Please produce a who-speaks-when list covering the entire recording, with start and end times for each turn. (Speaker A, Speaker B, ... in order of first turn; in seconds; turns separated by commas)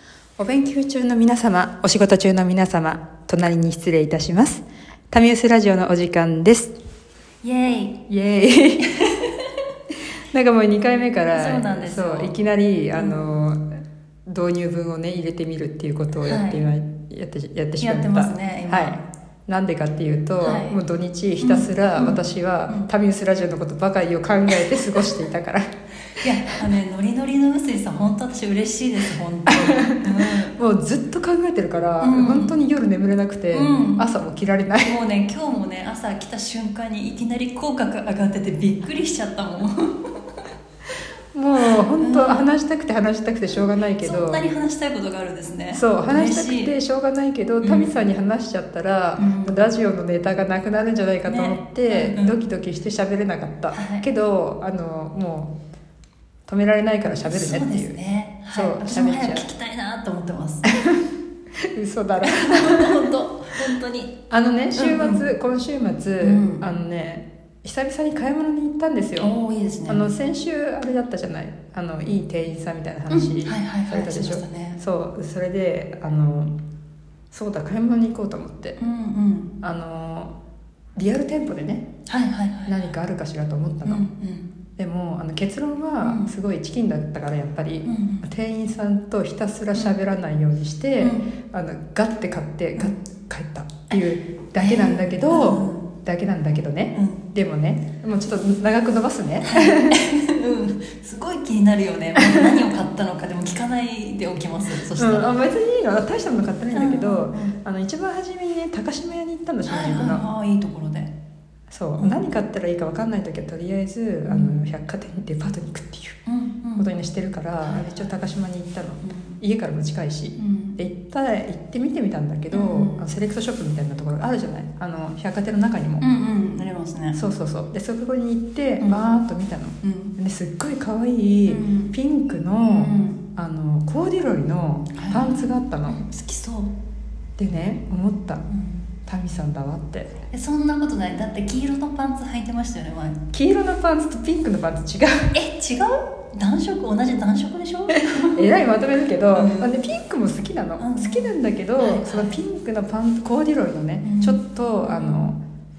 Speaker A: 0.4-6.7, Speaker B: 7.4-8.0, Speaker A: 8.1-8.9, Speaker B: 9.0-9.3, Speaker A: 10.3-13.6, Speaker B: 11.3-12.3, Speaker B: 12.9-13.3, Speaker A: 14.3-25.7, Speaker B: 16.2-16.6, Speaker B: 17.8-19.0, Speaker B: 20.4-20.8, Speaker B: 21.4-22.9, Speaker B: 26.1-30.6, Speaker A: 29.5-35.0, Speaker B: 32.0-32.6, Speaker B: 33.5-34.1, Speaker B: 34.8-40.2, Speaker A: 41.3-44.5, Speaker B: 42.0-42.5, Speaker B: 44.0-46.7, Speaker A: 45.7-55.5, Speaker B: 47.6-47.9, Speaker B: 49.2-49.7, Speaker B: 51.2-52.4, Speaker B: 53.7-54.1, Speaker A: 56.5-58.0, Speaker B: 57.2-60.8, Speaker A: 58.5-59.5, Speaker A: 60.7-61.0, Speaker A: 61.7-63.0, Speaker B: 62.2-64.2, Speaker A: 64.3-69.3, Speaker B: 64.8-65.3, Speaker B: 66.2-66.6, Speaker B: 69.2-70.1, Speaker A: 69.9-76.5, Speaker B: 73.1-74.8, Speaker A: 77.3-78.8, Speaker B: 78.8-79.5, Speaker A: 79.6-80.3, Speaker A: 81.0-81.9, Speaker B: 82.1-82.9, Speaker A: 82.7-84.0, Speaker B: 83.8-84.5, Speaker A: 84.8-100.0, Speaker B: 86.0-86.3, Speaker B: 87.9-88.3, Speaker B: 89.7-90.0, Speaker B: 91.0-91.3, Speaker B: 94.6-95.9, Speaker B: 97.0-97.2, Speaker B: 99.5-105.4, Speaker A: 105.0-110.2, Speaker B: 106.7-107.6, Speaker B: 109.7-111.1, Speaker A: 111.7-116.2, Speaker B: 114.3-114.6, Speaker B: 116.3-116.9, Speaker A: 116.8-126.0, Speaker B: 117.6-118.1, Speaker B: 119.0-119.4, Speaker B: 120.4-120.8, Speaker B: 122.5-123.1, Speaker B: 126.0-127.2, Speaker A: 127.1-136.0, Speaker B: 128.8-129.1, Speaker B: 129.8-130.2, Speaker B: 131.5-131.9, Speaker B: 132.6-133.2, Speaker B: 134.9-136.7, Speaker A: 137.4-138.4, Speaker B: 138.5-138.8, Speaker A: 139.1-140.1, Speaker B: 140.3-143.2, Speaker A: 143.3-145.3, Speaker B: 145.3-148.5, Speaker A: 148.2-155.4, Speaker B: 149.3-149.8, Speaker B: 150.8-152.4, Speaker B: 154.0-155.3